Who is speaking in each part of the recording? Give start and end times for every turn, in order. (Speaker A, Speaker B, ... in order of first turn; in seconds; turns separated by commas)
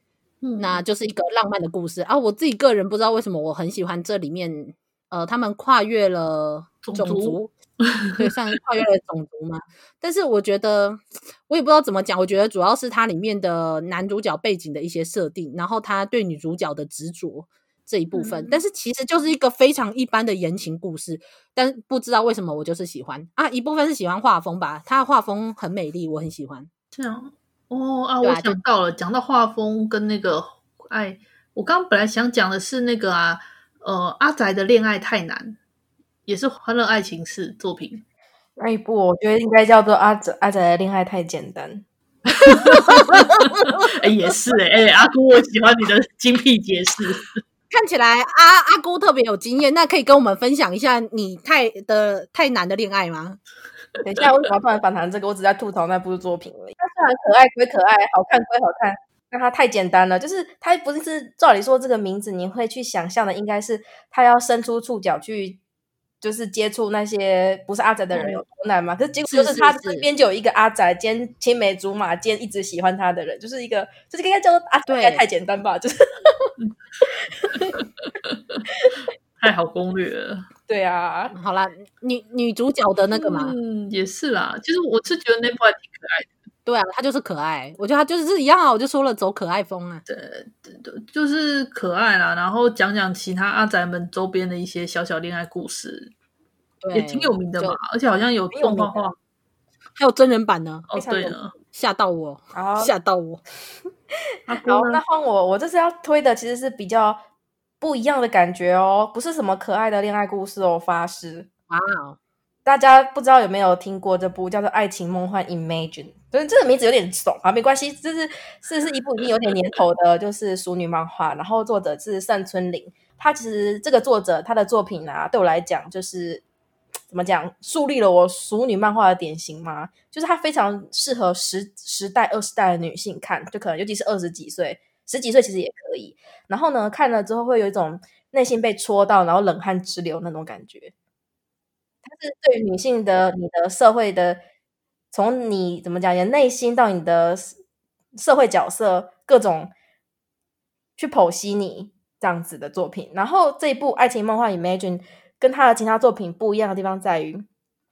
Speaker A: 0.4-0.8, Speaker B: 0.6-7.5, Speaker A: 6.8-7.4, Speaker A: 8.0-8.3, Speaker B: 8.2-26.7, Speaker A: 18.1-18.6, Speaker A: 26.9-35.6, Speaker B: 28.2-28.6, Speaker A: 36.3-38.0, Speaker C: 38.6-41.9, Speaker A: 42.3-47.4, Speaker B: 47.7-53.4, Speaker C: 54.0-65.6, Speaker C: 66.2-76.5, Speaker B: 68.1-68.4, Speaker B: 69.3-70.1, Speaker B: 74.9-75.2, Speaker A: 77.5-78.6, Speaker A: 79.4-80.5, Speaker C: 80.7-81.3, Speaker B: 81.3-83.5, Speaker A: 83.1-86.3, Speaker B: 86.7-90.0, Speaker A: 90.1-96.1, Speaker B: 96.8-97.8, Speaker A: 96.9-99.2, Speaker C: 98.5-99.1, Speaker B: 100.0-100.9, Speaker A: 100.9-101.5, Speaker C: 100.9-101.4, Speaker B: 101.7-103.4, Speaker C: 102.5-102.9, Speaker A: 104.5-105.0, Speaker C: 104.6-107.2, Speaker C: 107.8-111.5, Speaker B: 111.7-112.2, Speaker C: 112.7-126.4, Speaker C: 127.1-140.9, Speaker C: 142.0-144.4, Speaker C: 145.1-147.6, Speaker C: 148.2-149.7, Speaker C: 151.0-157.5